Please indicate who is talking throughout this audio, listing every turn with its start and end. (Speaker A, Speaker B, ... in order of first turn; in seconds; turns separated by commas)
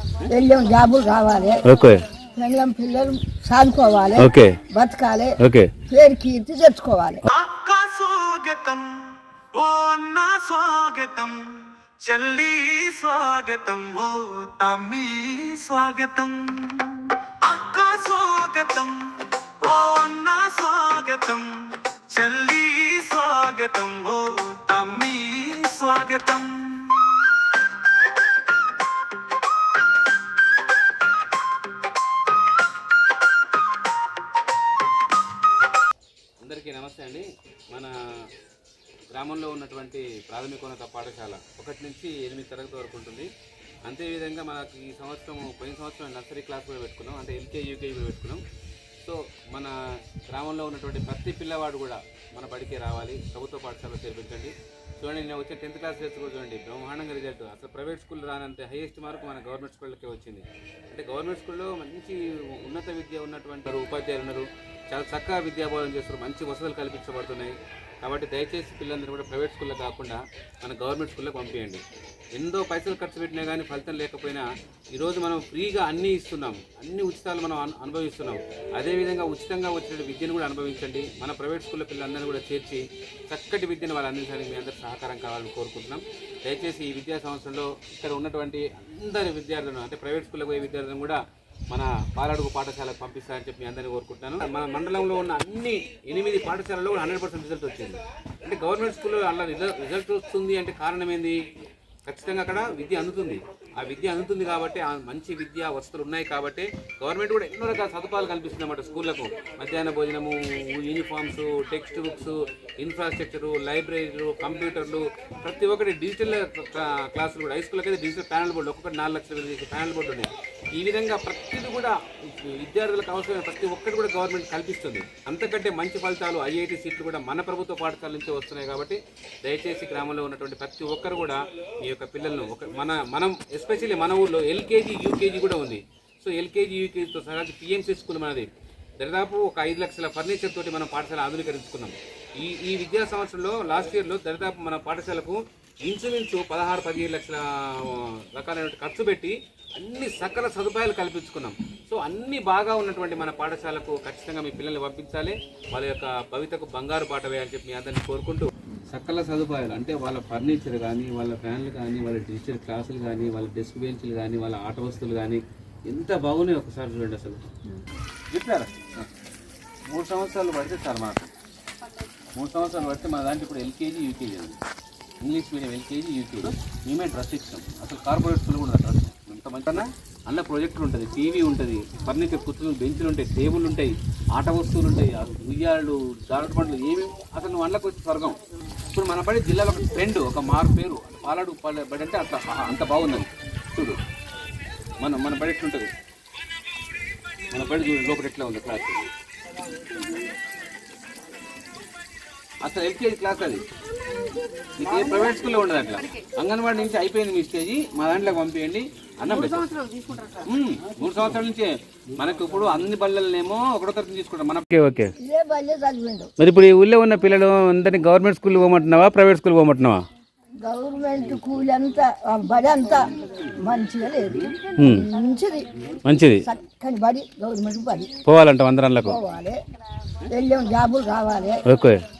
Speaker A: 0.2-1.7, Speaker B: 1.6-2.0, Speaker A: 2.3-5.4, Speaker B: 4.2-4.6, Speaker B: 5.4-5.7, Speaker A: 5.9-7.3, Speaker C: 7.3-27.4, Speaker B: 36.4-38.3, Speaker B: 39.1-43.3, Speaker B: 43.8-48.4, Speaker B: 49.0-71.8, Speaker B: 72.3-101.4, Speaker B: 102.1-167.4, Speaker B: 168.3-169.1, Speaker B: 169.9-171.3, Speaker B: 172.3-174.6, Speaker B: 175.2-194.0, Speaker B: 195.0-195.9, Speaker B: 197.5-199.1, Speaker B: 202.6-203.6, Speaker B: 204.8-209.8, Speaker B: 210.4-215.1, Speaker A: 215.2-216.3, Speaker B: 216.4-220.0, Speaker A: 220.6-225.7, Speaker B: 224.8-225.1, Speaker B: 226.0-226.4, Speaker A: 226.4-228.1, Speaker B: 228.2-229.2, Speaker A: 229.0-229.6, Speaker A: 230.2-231.6, Speaker B: 231.7-232.0